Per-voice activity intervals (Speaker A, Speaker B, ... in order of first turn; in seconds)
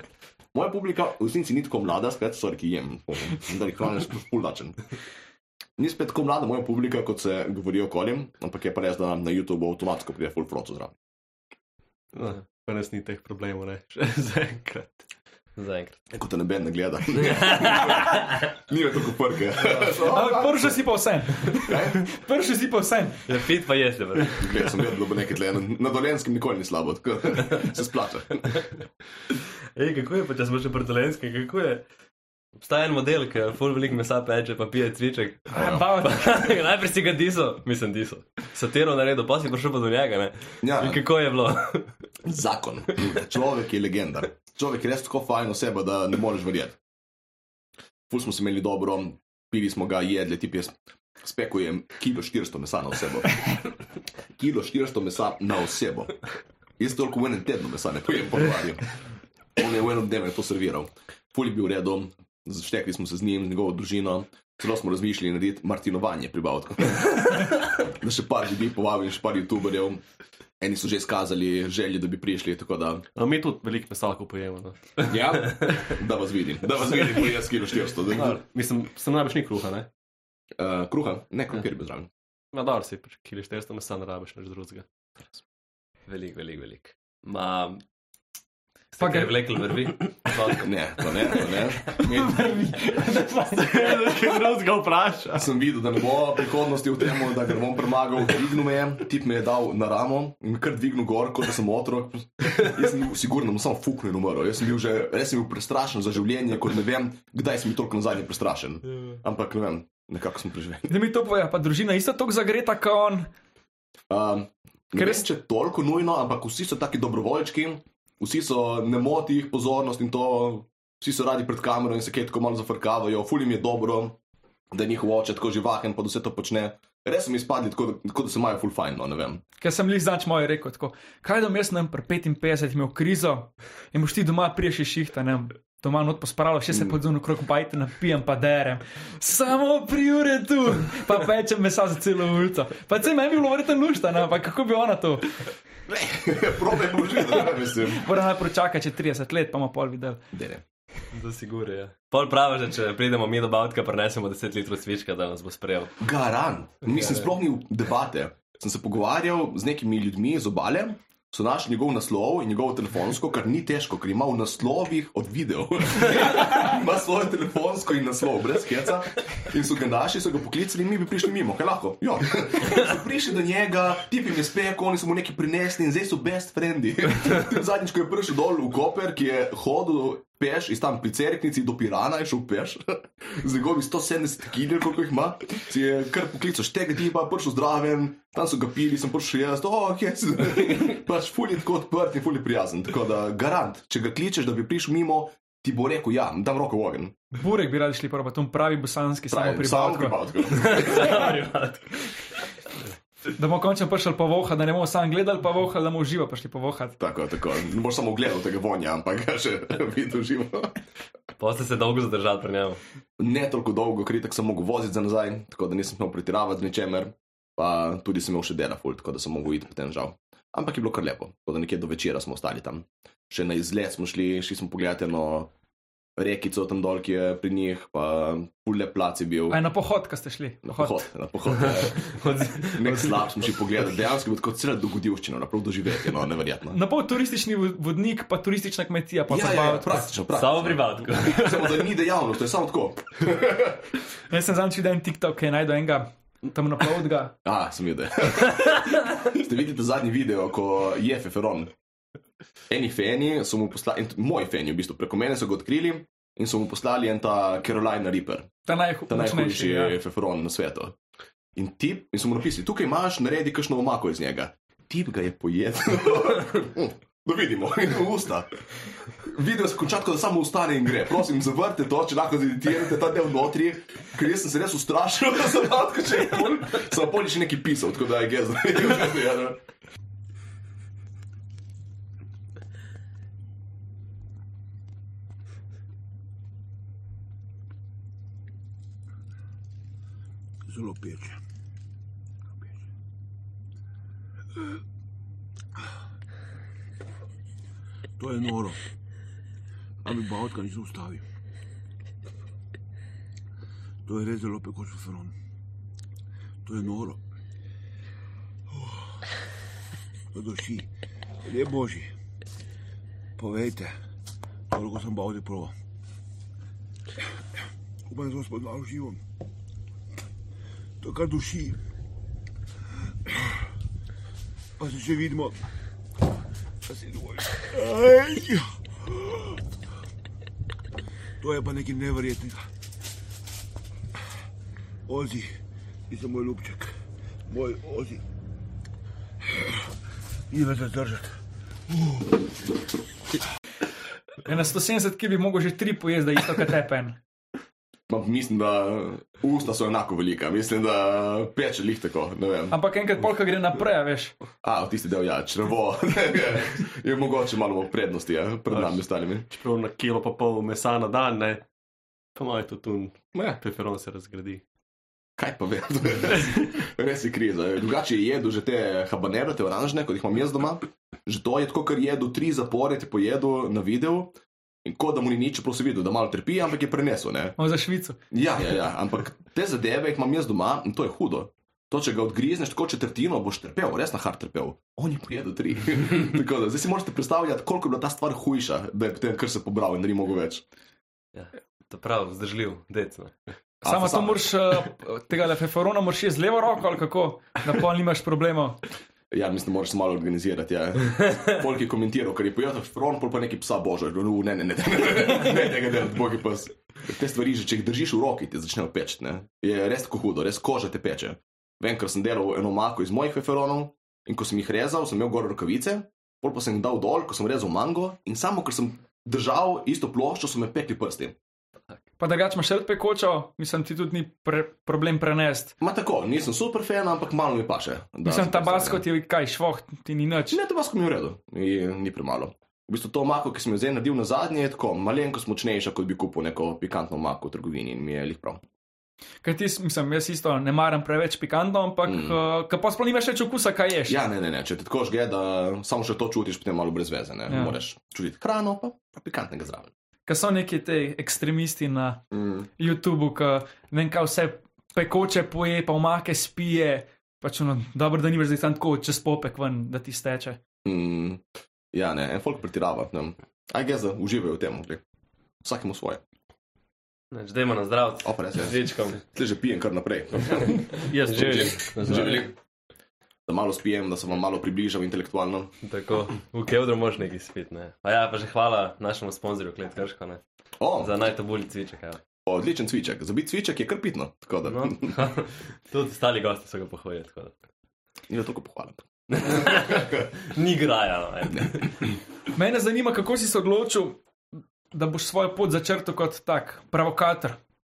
Speaker A: 0.5-4.8, 5.8-10.9, 16.1-20.8, 21.5-22.0, 24.4-28.6, 40.6-41.0, 42.2-46.8, 48.1-53.6, 54.4-56.2, 56.8-58.9, 59.6-70.0, 70.6-73.0, 75.1-78.4, 80.6-82.1, 90.6-92.5, 95.3-110.9, 114.1-124.2, 124.7-129.4, 145.9-148.0, 150.3-150.6, 156.0-197.2, 199.3-201.2, 207.0-210.8, 213.2-225.5, 226.2-229.6, 230.6-232.2, 232.7-236.8, 239.3-243.8, 247.4-251.7, 252.7-258.5, 259.1-260.9, 261.6-268.5, 269.2-279.6, 348.1-352.8, 354.6-359.5, 365.4-374.3, 374.9-377.6, 378.3-390.6, 393.8-394.5, 399.3-421.4, 425.8-429.1, 430.5-438.6, 442.1-442.4, 444.1-449.9, 452.3-452.7, 460.9-465.0, 465.6-466.2, 468.2-472.5, 473.5-475.7, 480.8-481.1, 482.5-485.2, 488.3-490.2
Speaker B: 12.1-15.1, 73.2-75.2, 78.1-79.9, 82.5-84.9, 93.5-95.5, 358.7-361.6, 362.4-364.6, 471.1-472.5
Speaker C: 15.6-16.0, 17.5-17.9, 23.3-24.5, 29.3-31.8, 32.6-41.9, 86.1-87.8, 89.0-91.4, 151.1-156.0, 156.9-157.2, 200.5-202.0, 211.4-212.8, 231.6-233.3, 240.3-241.8, 391.3-393.4, 467.3-469.2, 475.8-480.4, 481.0-482.2, 484.7-487.6, 489.3-492.1
Speaker D: 20.1-23.2, 35.5-36.4, 89.0-89.3, 92.1-94.4, 110.9-113.3, 115.0-115.2, 129.6-145.3, 147.9-150.2, 197.3-200.2, 203.4-207.0, 229.5-231.0, 236.7-240.1, 244.3-247.3, 258.7-260.0, 344.4-347.2, 352.7-354.4, 377.6-378.2, 393.8-398.8, 422.2-425.8, 428.2-430.6, 439.4-444.2, 447.5-447.8, 450.3-452.2, 452.8-460.6, 492.6-494.2, 494.9-497.6
Speaker E: 290.7-291.4, 298.2-298.8, 300.1-301.2, 304.1-305.4, 306.7-307.2, 308.7-309.1, 310.3-310.9, 311.4-312.1, 313.4-313.9, 314.7-315.7, 318.1-319.2, 321.0-321.8, 324.8-325.6, 326.9-329.6, 331.4-332.7, 335.1-335.5, 336.1-336.9, 337.5-338.2, 340.5-341.3, 342.0-342.5